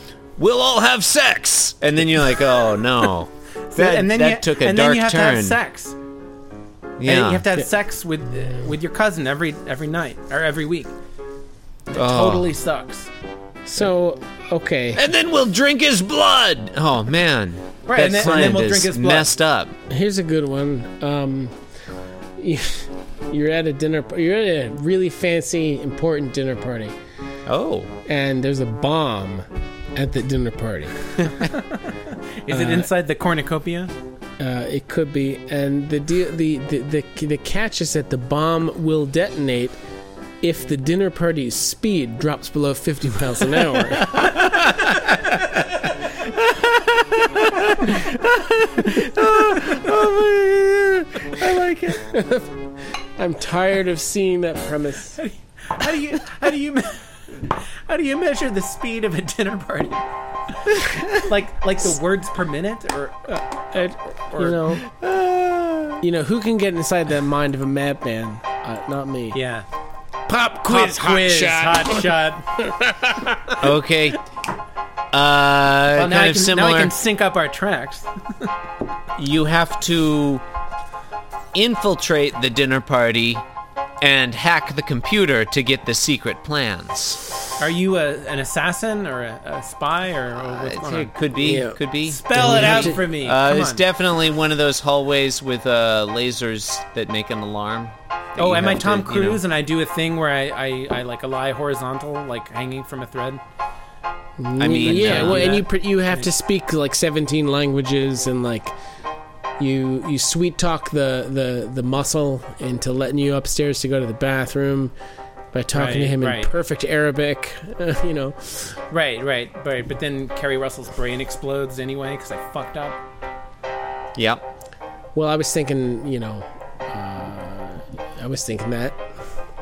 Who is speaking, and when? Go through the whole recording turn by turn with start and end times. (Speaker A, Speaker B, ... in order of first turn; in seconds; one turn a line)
Speaker A: 0.4-5.6
Speaker B: 3.7-6.0
Speaker A: 7.0-7.5
Speaker B: 7.0-10.9
Speaker B: 11.9-13.1
Speaker A: 11.9-12.5
Speaker C: 13.7-15.0
Speaker A: 14.9-19.7
Speaker B: 17.9-19.3
Speaker C: 19.9-21.6
Speaker C: 22.4-26.9
Speaker A: 27.5-27.9
Speaker C: 28.1-31.1
Speaker B: 31.5-33.9
Speaker C: 32.5-32.9
Speaker C: 34.4-39.8
Speaker C: 40.4-44.2
Speaker A: 43.8-52.0
Speaker C: 51.9-55.2
Speaker B: 55.2-60.1
Speaker B: 60.6-64.6
Speaker C: 63.3-64.9
Speaker A: 64.9-66.0
Speaker C: 66.0-69.4
Speaker B: 69.3-69.7
Speaker C: 70.3-73.6
Speaker B: 70.7-72.4
Speaker A: 73.6-74.2
Speaker A: 75.1-76.9
Speaker B: 76.0-78.5
Speaker A: 79.2-80.4
Speaker A: 81.5-83.4
Speaker A: 84.0-87.2
Speaker B: 87.6-91.2
Speaker A: 90.4-99.4
Speaker C: 91.4-91.8
Speaker B: 92.0-93.8
Speaker C: 92.3-93.0
Speaker B: 98.4-103.4
Speaker C: 104.4-108.7
Speaker A: 104.6-105.6
Speaker B: 104.7-106.3
Speaker C: 109.6-114.9
Speaker C: 115.5-118.8
Speaker B: 115.7-116.5
Speaker B: 118.9-123.0
Speaker A: 124.2-124.4
Speaker C: 125.2-129.0